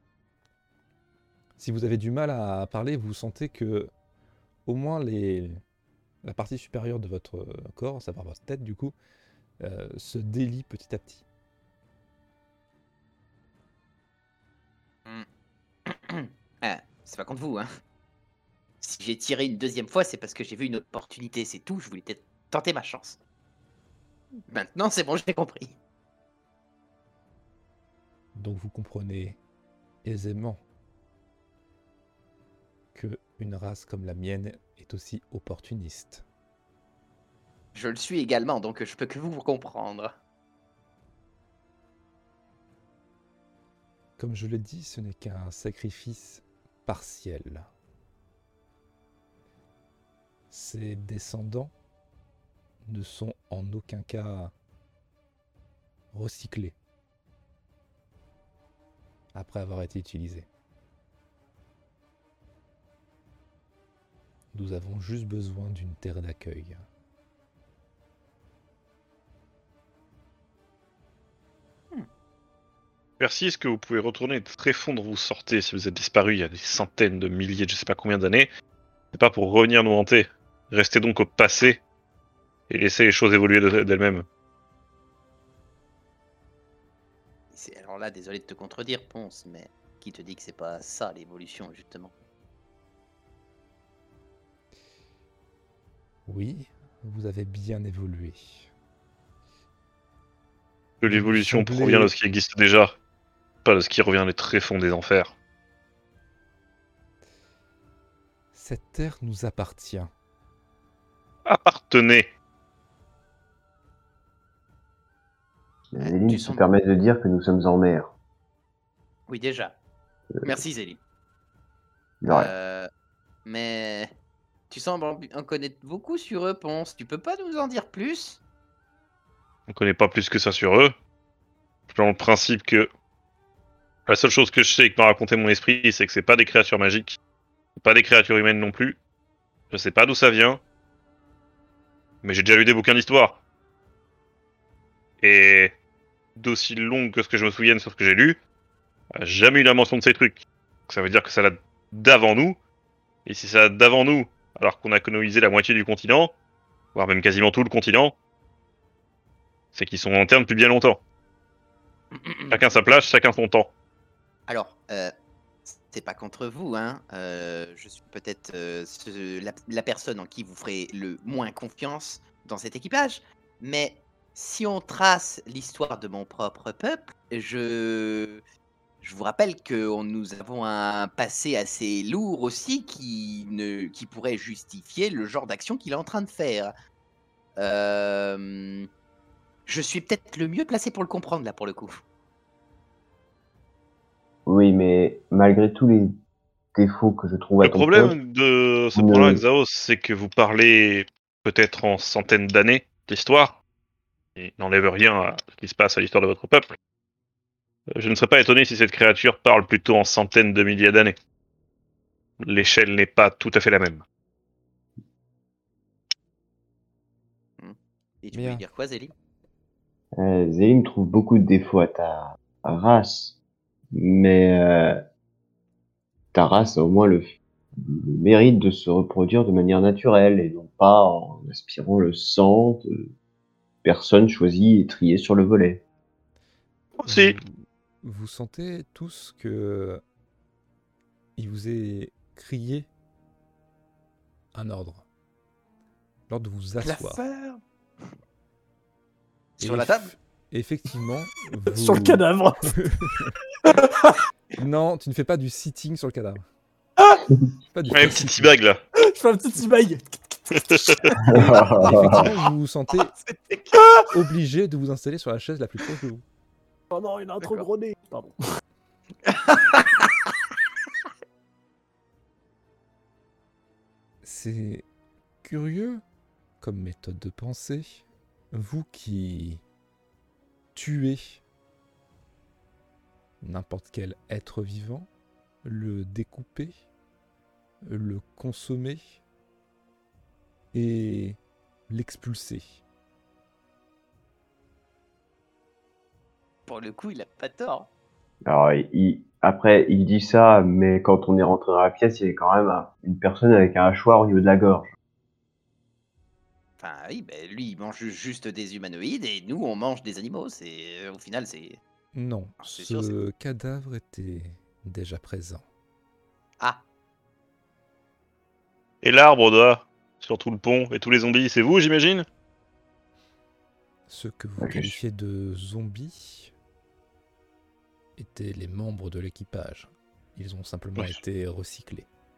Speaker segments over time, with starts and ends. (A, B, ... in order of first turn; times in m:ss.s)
0:01.6-0:03.9 A
0:04.7-0:05.6 A
0:06.2-0:09.0 A
0:09.6-0:11.2 A
0:15.9-0:17.7 B
0:18.8-0:23.2 B
0:24.5-0:25.8 B
0:28.4-0:29.4 A
0:30.0-0:30.6 A
0:32.9-0:36.2 A
0:37.8-0:40.2 B
0:44.2-0:47.7 A
0:50.5-0:51.7 A
0:52.9-0:54.5 A
0:56.1-0:56.8 A
0:59.4-1:00.5 A
1:04.5-1:06.8 A
1:13.2-1:18.5 C
1:19.1-1:21.8 C
1:22.7-1:24.2 C
1:27.5-1:32.1 B
1:36.3-1:38.7 A
1:41.0-1:43.0 C
1:41.0-1:42.1 A
1:43.6-1:45.3 C
1:48.5-1:50.1 A
1:51.4-1:52.3 C
1:55.9-1:58.1 D
1:56.0-1:56.6 B
1:59.3-1:59.8 B
2:00.4-2:01.0 B
2:02.2-2:02.5 D
2:02.3-2:02.9 B
2:03.4-2:04.1 B
2:04.7-2:08.4 B
2:09.7-2:10.9 C
2:11.9-2:12.9 C
2:14.1-2:17.2 C
2:17.8-2:19.0 C
2:19.7-2:20.6 C
2:22.2-2:23.4 C
2:25.2-2:25.8 C
2:26.4-2:28.4 C
2:29.2-2:32.6 C
2:33.2-2:36.4 C
2:37.0-2:38.2 C
2:39.7-2:41.0 C
2:42.1-2:42.6 B
2:42.5-2:43.7 C
2:44.5-2:45.1 B
2:45.6-2:58.4 B
2:59.0-3:06.7 B
3:07.6-3:08.9 B
3:09.7-3:12.0 B
3:14.5-3:16.2 D
3:16.8-3:18.1 D
3:17.6-3:23.6 C
3:19.0-3:19.4 D
3:24.4-3:26.8 C
3:28.0-3:31.2 C
3:32.4-3:34.0 C
3:37.6-3:39.1 B
3:38.3-3:38.6 A
3:40.2-3:43.4 D
3:43.9-3:45.0 D
3:46.3-3:53.1 D
3:53.8-3:55.8 D
3:57.0-3:57.4 C
3:57.1-4:00.0 A
4:01.4-4:02.9 A
4:04.5-4:05.0 A
4:06.3-4:07.2 A
4:06.8-4:08.1 B
4:09.6-4:10.1 B
4:09.6-4:13.4 A
4:11.7-4:12.8 E
4:13.7-4:14.2 E
4:14.6-4:16.4 A
4:17.7-4:18.6 A
4:17.9-4:18.8 C
4:19.0-4:21.8 E
4:20.5-4:21.1 C
4:21.2-4:22.3 D
4:21.8-4:23.1 A
4:22.9-4:23.9 B
4:24.1-4:26.2 A
4:26.9-4:28.3 E
4:29.2-4:30.3 B
4:34.2-4:34.9 A
4:35.4-4:36.0 A
4:36.6-4:39.6 A
4:40.8-4:41.4 A
4:43.4-4:45.1 A
4:45.6-4:46.8 A
4:47.8-4:49.2 A
4:50.7-4:52.8 A
4:56.7-4:57.9 B
4:58.5-5:04.9 D
5:06.8-5:11.8 B
5:12.1-5:15.6 A
5:12.6-5:13.2 B
5:19.0-5:22.3 C
5:24.1-5:26.5 A
5:24.6-5:25.0 D
5:28.2-5:32.1 A